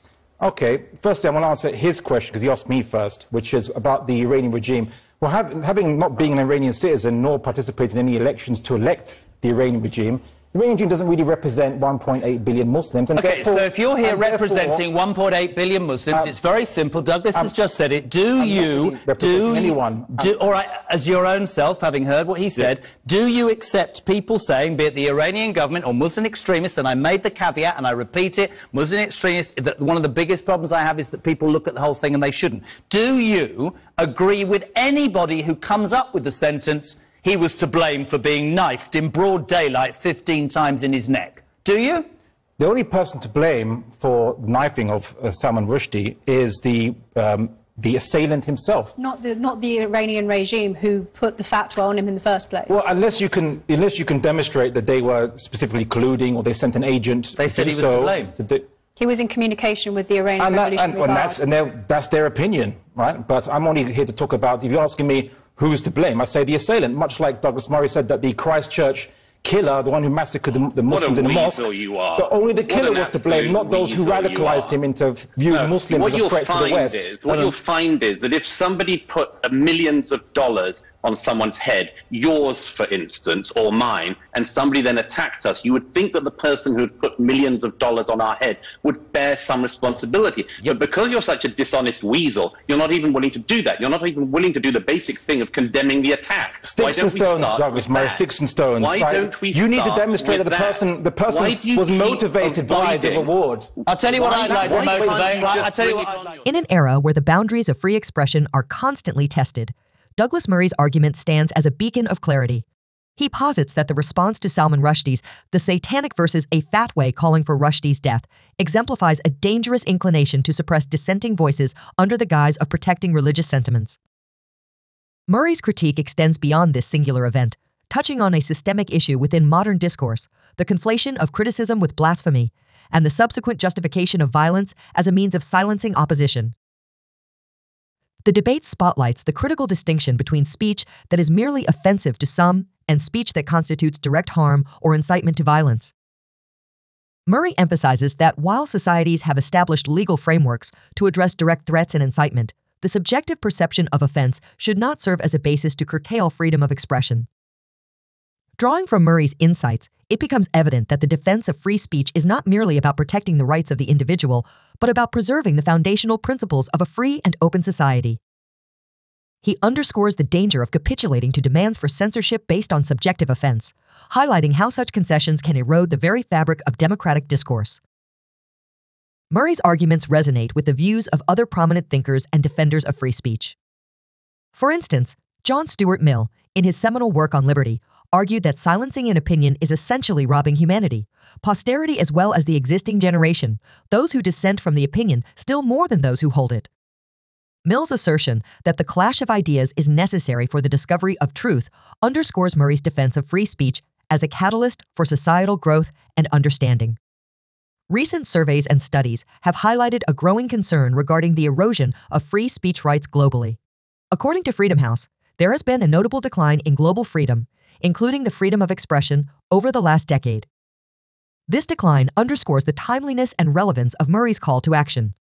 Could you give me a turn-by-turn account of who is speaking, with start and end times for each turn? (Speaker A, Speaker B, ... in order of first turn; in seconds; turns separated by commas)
Speaker A: 0.4-14.8, Speaker B: 13.2-42.1, Speaker A: 18.4-20.3, Speaker A: 42.6-48.9, Speaker C: 49.0-52.9, Speaker A: 52.7-58.6, Speaker B: 57.4-58.4, Speaker C: 59.0-61.4, Speaker A: 60.4-77.0, Speaker D: 70.8-74.7, Speaker D: 75.5-103.3, Speaker A: 96.6-103.7, Speaker B: 103.9-106.3, Speaker D: 103.9-106.5, Speaker A: 104.2-105.4, Speaker E: 106.4-112.6, Speaker E: 113.2-124.0, Speaker E: 125.3-136.5, Speaker E: 138.2-145.9, Speaker E: 147.3-157.3, Speaker E: 158.6-168.2, Speaker E: 169.4-177.8, Speaker E: 179.3-183.5, Speaker E: 184.6-196.7, Speaker E: 197.6-207.0, Speaker E: 207.9-213.6, Speaker E: 214.1-220.5, Speaker E: 221.5-225.1